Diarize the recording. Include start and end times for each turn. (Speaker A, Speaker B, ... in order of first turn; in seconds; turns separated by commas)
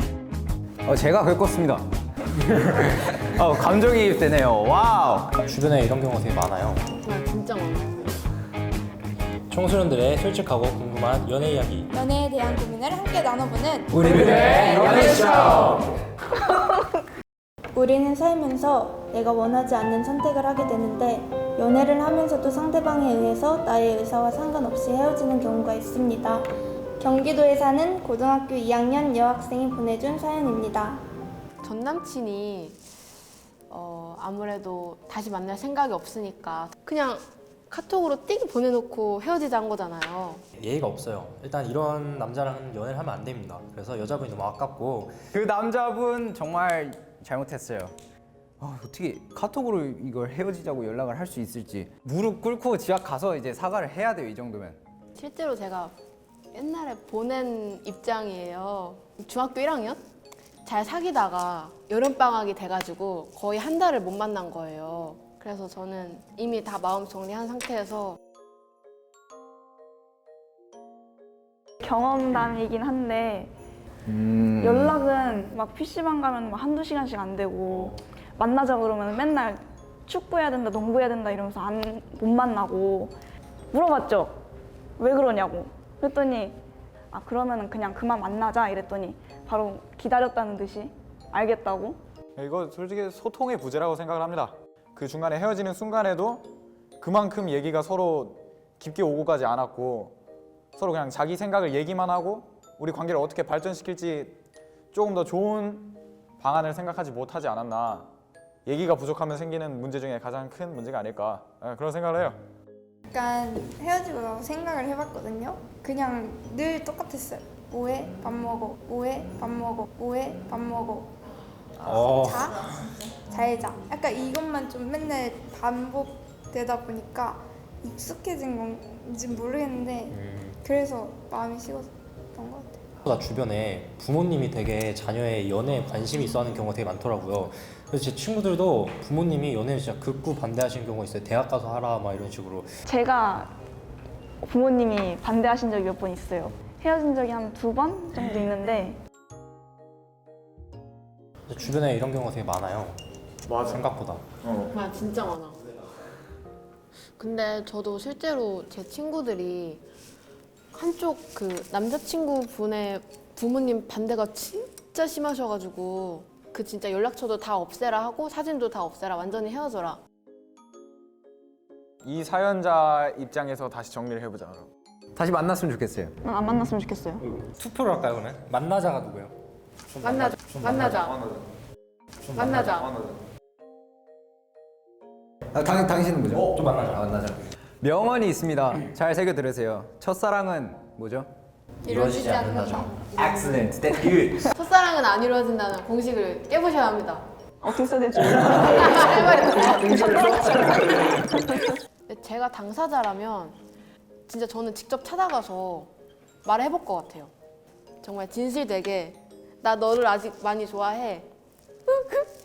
Speaker A: 0.8-5.3, Speaker B: 5.4-7.0, Speaker C: 7.0-8.0, Speaker B: 9.5-11.9, Speaker D: 11.9-14.6, Speaker A: 13.9-15.8, Speaker D: 15.2-15.6, Speaker D: 17.7-26.4, Speaker D: 27.0-31.0, Speaker C: 31.6-32.8, Speaker C: 33.7-40.4, Speaker B: 40.6-45.2, Speaker A: 45.3-47.9, Speaker A: 48.6-54.8, Speaker C: 55.1-56.0, Speaker C: 56.5-60.0, Speaker C: 60.6-68.2, Speaker E: 71.8-73.5, Speaker A: 74.1-74.9, Speaker E: 74.6-83.1, Speaker E: 83.7-84.4, Speaker E: 85.0-86.6, Speaker E: 87.1-92.0, Speaker F: 92.4-100.1, Speaker F: 100.8-104.4, Speaker F: 104.9-108.1, Speaker F: 108.7-112.4, Speaker D: 113.1-121.1, Speaker B: 121.8-122.9, Speaker D: 121.8-132.8, Speaker B: 130.1-130.6, Speaker B: 133.0-142.7, Speaker E: 142.8-143.5, Speaker E: 144.4-149.0, Speaker B: 151.5-153.0, Speaker F: 153.5-153.8, Speaker B: 153.6-154.2, Speaker F: 154.4-154.7, Speaker C: 154.7-155.6, Speaker C: 157.2-159.8, Speaker C: 160.7-170.0, Speaker F: 172.0-174.7, Speaker A: 175.2-176.1, Speaker E: 176.2-177.2, Speaker B: 177.2-179.3, Speaker B: 179.9-181.1, Speaker C: 180.0-181.0, Speaker F: 181.0-181.5, Speaker B: 182.3-182.8, Speaker C: 182.3-182.8, Speaker F: 182.4-183.2, Speaker A: 185.5-191.3, Speaker B: 186.5-187.1, Speaker B: 191.8-193.0, Speaker C: 192.3-192.9, Speaker A: 193.0-194.5, Speaker C: 194.5-197.2, Speaker E: 197.6-201.8, Speaker C: 198.8-200.6, Speaker C: 202.1-203.6, Speaker C: 204.3-205.9, Speaker C: 206.4-207.3, Speaker C: 208.0-211.3, Speaker C: 211.8-212.3